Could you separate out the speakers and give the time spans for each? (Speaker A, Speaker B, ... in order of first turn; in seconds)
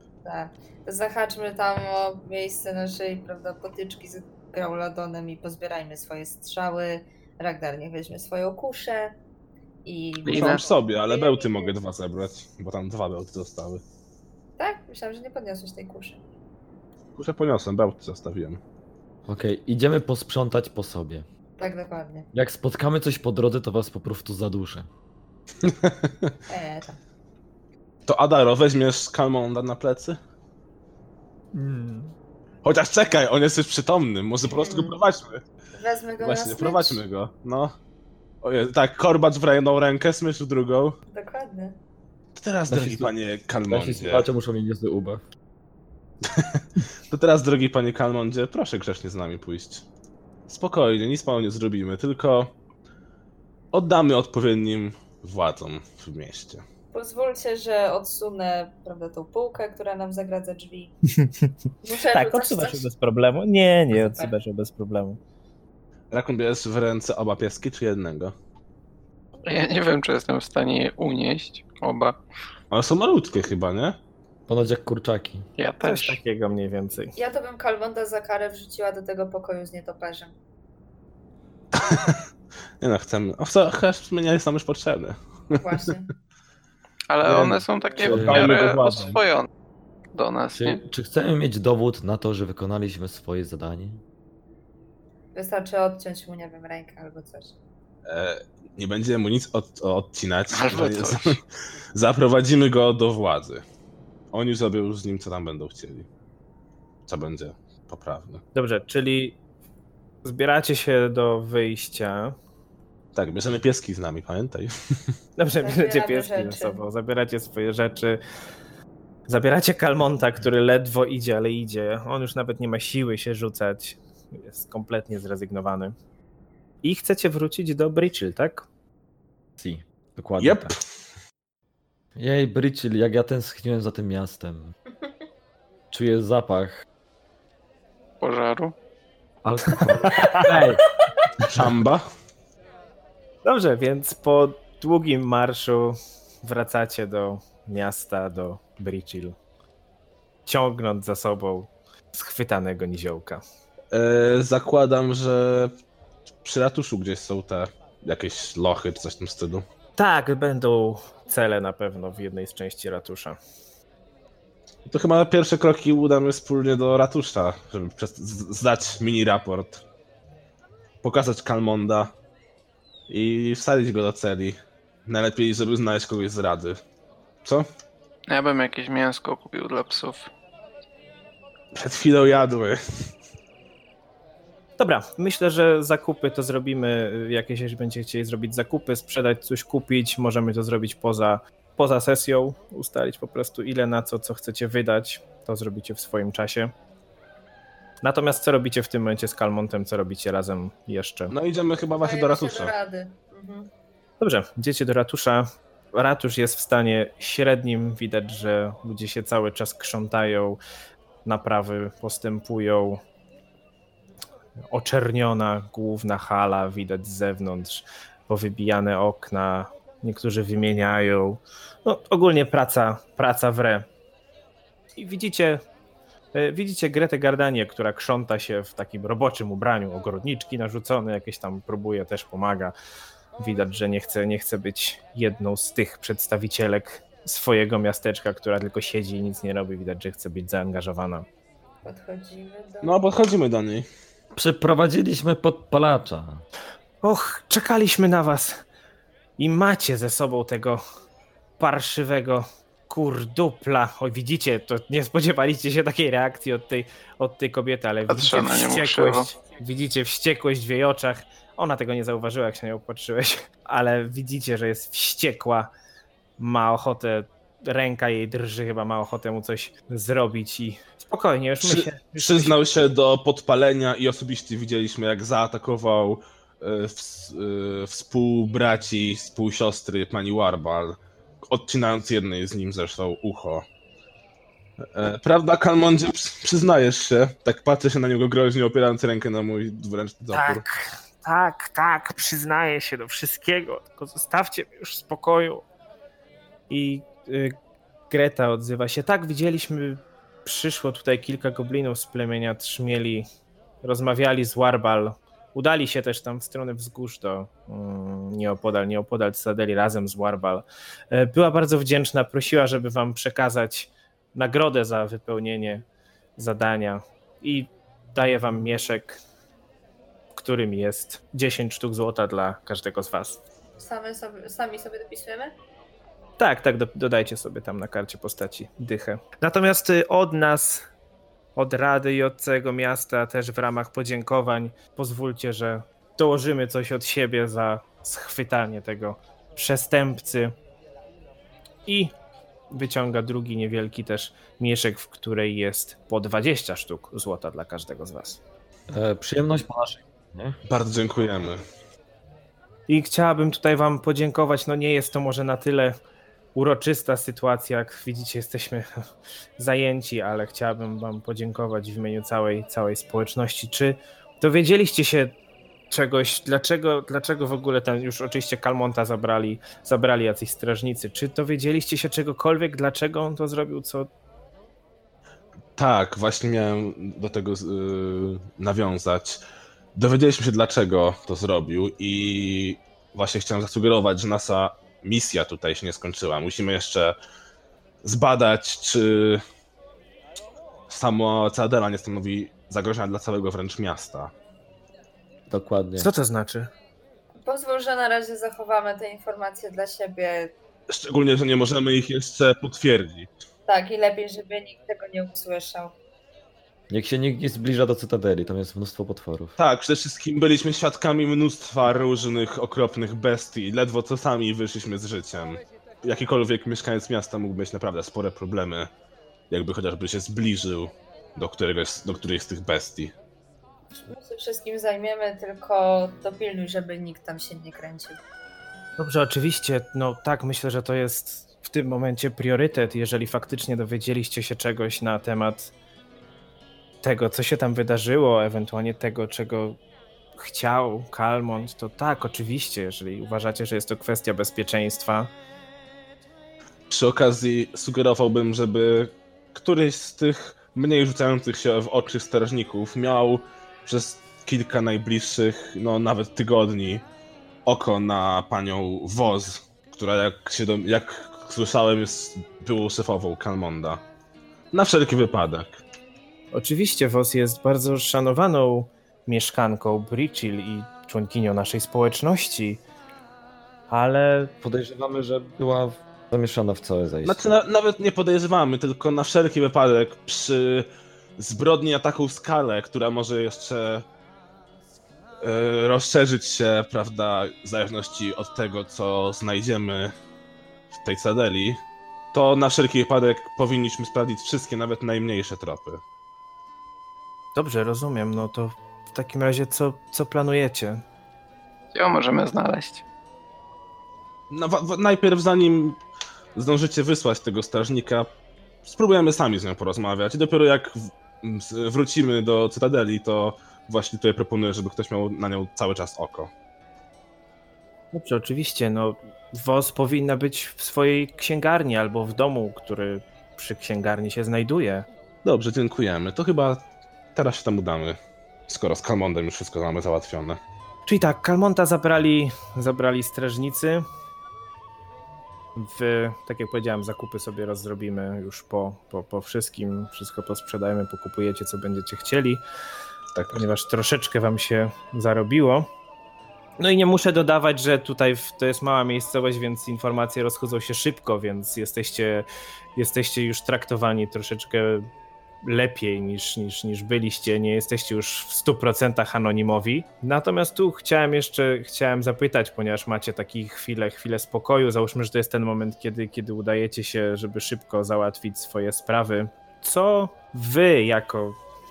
Speaker A: 0.2-9.2, 9.8-11.8, 14.6-16.2, 21.6-22.3, 26.5-27.0, 34.5-35.0, 35.7-37.0, 41.1-41.8, 56.9-61.0, 61.8-62.9, 63.9-64.3, 77.2-80.3, 85.6-86.1, 95.3-97.5, 115.6-116.8, 202.0-203.7, 241.8-243.0, 323.8-325.5, 397.4-400.5, 403.7-405.9, 424.1-428.2
Speaker B: 10.2-10.6, 69.4-72.2, 75.6-76.2, 87.1-89.5, 90.1-90.8, 100.5-101.4, 138.2-138.7, 178.3-180.3, 258.1-259.3, 501.9-503.0
Speaker C: 10.2-13.8, 17.1-18.6, 25.6-26.3, 28.1-30.2, 32.6-35.4, 36.2-37.7, 38.4-41.0, 42.3-44.2, 46.2-49.9, 50.5-52.5, 53.7-56.6, 66.1-68.3, 72.7-74.0, 81.8-82.2, 82.8-85.9, 87.2-89.2, 98.1-101.4, 101.9-103.6, 104.3-106.1, 107.1-108.4, 113.1-115.1, 130.4-130.8, 141.5-142.0, 153.9-155.7, 156.4-159.7, 164.8-169.8, 171.0-172.1, 173.1-176.8, 181.7-182.8, 201.3-202.7, 242.8-243.8, 271.6-283.6, 284.9-290.6, 350.7-351.6, 375.8-379.4, 379.9-387.1, 388.0-389.4, 390.9-394.3, 400.9-403.3, 409.6-418.9, 419.5-423.1, 446.9-457.0, 457.6-464.0, 464.7-465.8, 477.2-484.0, 485.4-490.1, 490.9-491.8, 492.3-496.0, 504.5-506.0, 506.6-508.3, 508.8-516.5, 525.4-526.8, 527.3-530.6, 543.3-543.7
Speaker D: 19.3-21.2, 22.3-24.9, 31.5-32.1, 42.7-43.1, 43.7-45.2, 74.5-75.5, 88.0-88.6, 90.6-94.0, 129.6-130.7, 132.1-134.7, 135.9-136.8, 139.4-140.8, 244.3-246.4, 348.9-350.6, 395.5-396.1, 406.9-409.5, 474.6-477.5
Speaker E: 61.2-61.5, 62.1-65.2, 75.8-77.1, 108.5-109.3, 110.2-112.3, 115.4-118.2, 119.3-125.9, 126.8-128.7, 139.7-140.5, 143.4-149.4, 150.4-153.4, 160.0-163.4, 184.8-196.7, 198.0-201.3, 204.2-210.6, 211.2-213.0, 214.7-223.9, 224.9-225.6, 226.3-232.7, 233.4-241.3, 247.0-248.6, 249.4-250.8, 251.6-265.7, 266.4-272.6, 290.3-295.6, 296.7-297.5, 298.1-303.2, 303.8-315.9, 316.4-319.2, 320.3-323.4, 326.4-330.9, 331.6-340.5, 341.9-342.1, 342.7-348.4, 352.9-356.0, 356.5-358.9, 359.6-365.4, 365.9-374.1, 395.9-396.7, 429.0-435.7, 437.0-439.8, 440.4-445.3, 466.5-472.8, 473.9-474.5, 497.5-501.0, 518.1-525.1, 531.0-534.0, 535.8-542.6, 543.5-545.9, 546.8-555.1, 555.6-571.6